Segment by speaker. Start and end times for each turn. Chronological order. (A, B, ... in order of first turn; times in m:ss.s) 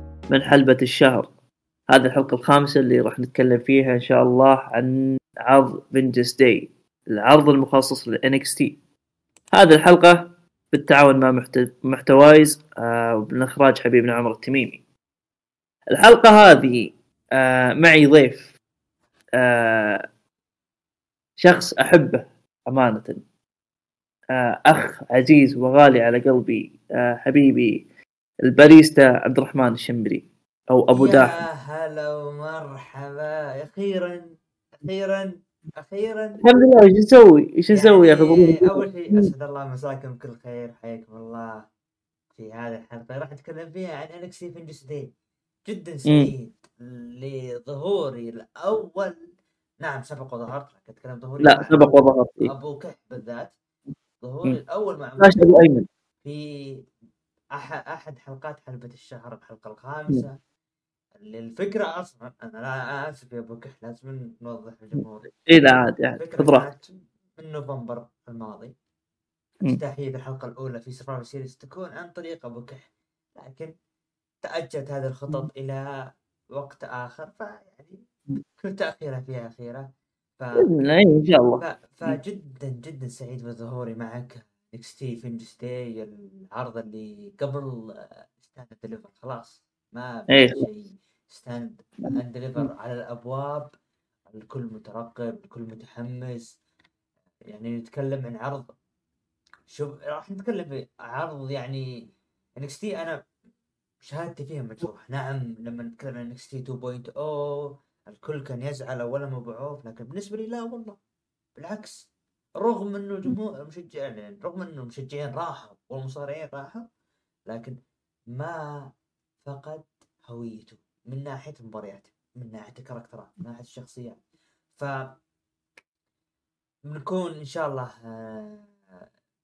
0:00.3-0:01.3 A
0:01.9-0:08.8 A
0:09.5-0:14.8 A
0:15.9-0:18.5 A
0:19.4-0:20.0 A
0:21.4-0:23.2 A
0:24.3-0:27.8 A
0:28.4-0:31.4 A
0:30.9-0:36.4 B
0:36.4-0:39.3 A
0:37.7-0:41.6 B
0:42.3-0:45.1 B
0:45.7-0:49.2 B
0:46.0-0:46.3 A
0:49.8-0:53.5 B
0:51.4-0:52.5 A
0:54.2-0:55.5 B
0:55.2-0:55.9 A
0:56.2-0:56.8 B
0:57.5-1:00.4 B
1:01.2-1:05.5 B
1:05.5-1:06.6 A
1:06.1-1:08.7 B
1:09.6-1:13.7 B
1:14.4-1:15.8 B
1:16.5-1:18.0 B
1:18.6-1:19.9 B
1:20.4-1:20.7 B
1:20.6-1:22.2 A
1:21.6-1:33.7 B
1:30.3-1:30.6 A
1:32.0-1:32.7 A
1:34.3-1:36.6 B
1:37.5-1:38.7 B
1:39.7-1:41.8 B
1:42.6-1:43.2 B
1:44.0-1:51.0 B
1:51.6-1:52.1 B
1:52.6-1:56.9 B
1:57.5-1:57.7 B
1:58.3-1:58.9 B
1:59.4-2:04.2 B
2:04.8-2:05.1 B
2:06.9-2:09.0 B